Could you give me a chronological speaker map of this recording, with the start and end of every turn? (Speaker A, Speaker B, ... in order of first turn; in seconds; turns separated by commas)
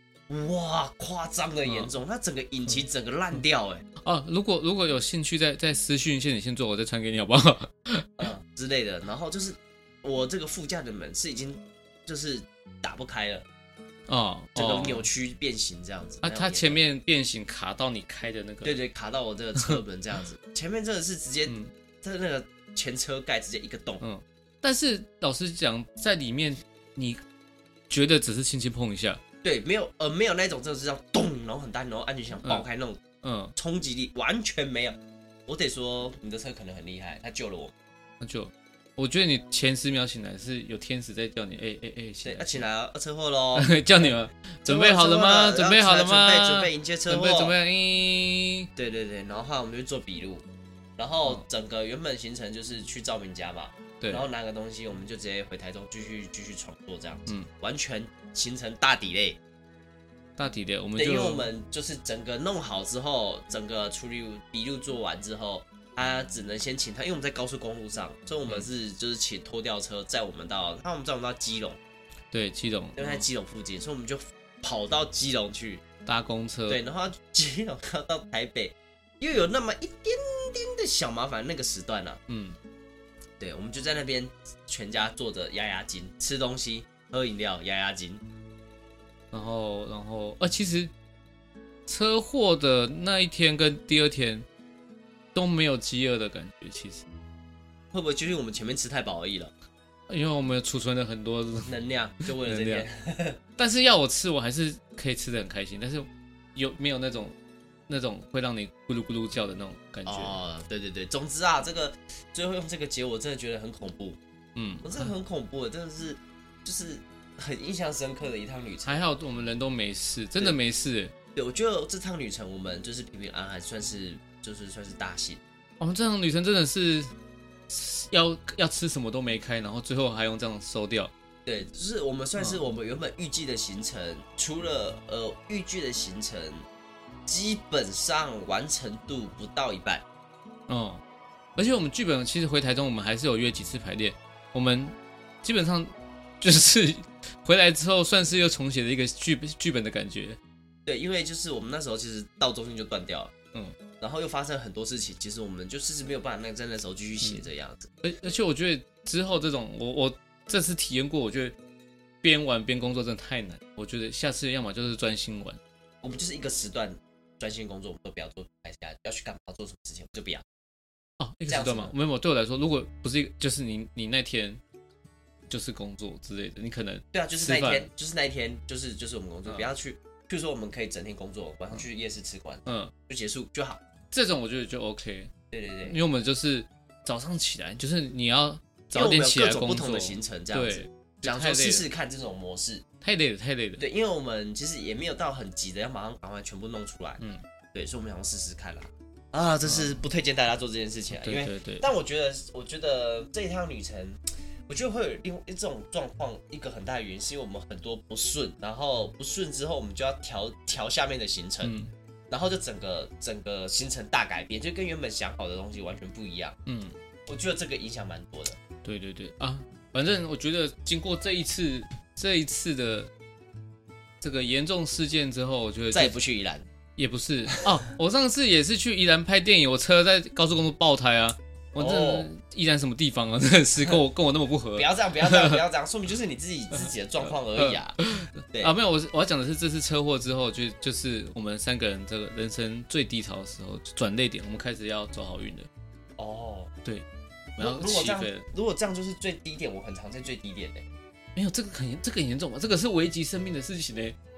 Speaker A: 0.3-3.8, Speaker B: 1.6-1.9, Speaker B: 4.0-8.3, Speaker A: 8.2-13.4, Speaker B: 14.1-15.0, Speaker A: 14.6-16.8, Speaker B: 16.2-18.8, Speaker A: 18.6-24.0, Speaker B: 21.4-21.7, Speaker B: 24.0-27.2, Speaker B: 27.9-29.2, Speaker A: 29.4-33.0, Speaker B: 33.2-33.5, Speaker A: 33.5-37.7, Speaker B: 38.2-42.6, Speaker A: 42.2-44.1, Speaker B: 43.5-48.7, Speaker A: 44.6-47.5, Speaker A: 48.8-50.4, Speaker A: 51.0-59.4, Speaker B: 60.4-61.5, Speaker A: 61.0-71.8, Speaker B: 72.3-73.2, Speaker A: 73.0-75.8, Speaker B: 76.0-76.8, Speaker A: 76.7-82.2, Speaker B: 82.3-82.6, Speaker A: 83.4-88.2, Speaker B: 89.3-90.9, Speaker B: 91.9-94.5, Speaker B: 95.3-97.0, Speaker A: 97.9-99.5, Speaker B: 100.1-101.7, Speaker A: 101.7-103.4, Speaker B: 102.2-102.9, Speaker B: 103.6-107.3, Speaker B: 107.9-110.4, Speaker A: 110.0-114.2, Speaker B: 114.5-115.1, Speaker A: 114.8-119.1, Speaker B: 118.8-121.1, Speaker A: 121.3-125.4, Speaker B: 125.8-127.1, Speaker B: 127.7-131.1, Speaker A: 131.4-136.6, Speaker A: 137.2-140.0, Speaker B: 140.7-141.0, Speaker B: 141.6-150.4, Speaker A: 150.8-153.3, Speaker A: 154.0-157.9, Speaker B: 158.0-161.6, Speaker B: 162.2-165.6, Speaker A: 166.0-170.4, Speaker B: 171.2-174.6, Speaker A: 171.5-171.9, Speaker B: 175.5-177.9, Speaker A: 177.1-183.8, Speaker B: 182.7-182.9, Speaker B: 184.1-185.3, Speaker A: 185.5-186.0, Speaker B: 185.8-191.8, Speaker A: 188.9-192.8, Speaker B: 193.0-193.8, Speaker A: 193.8-197.2, Speaker A: 197.7-211.7, Speaker B: 199.6-200.0, Speaker B: 201.1-201.9, Speaker B: 211.6-211.9, Speaker A: 212.3-216.6, Speaker B: 216.7-216.9, Speaker A: 217.3-218.6, Speaker B: 218.8-223.1, Speaker B: 224.2-226.1, Speaker A: 225.9-226.7, Speaker B: 227.0-235.6, Speaker A: 231.8-232.3, Speaker A: 234.8-238.0, Speaker B: 237.5-245.7, Speaker A: 246.2-246.7, Speaker B: 247.6-248.5, Speaker A: 247.6-250.8, Speaker B: 251.3-254.2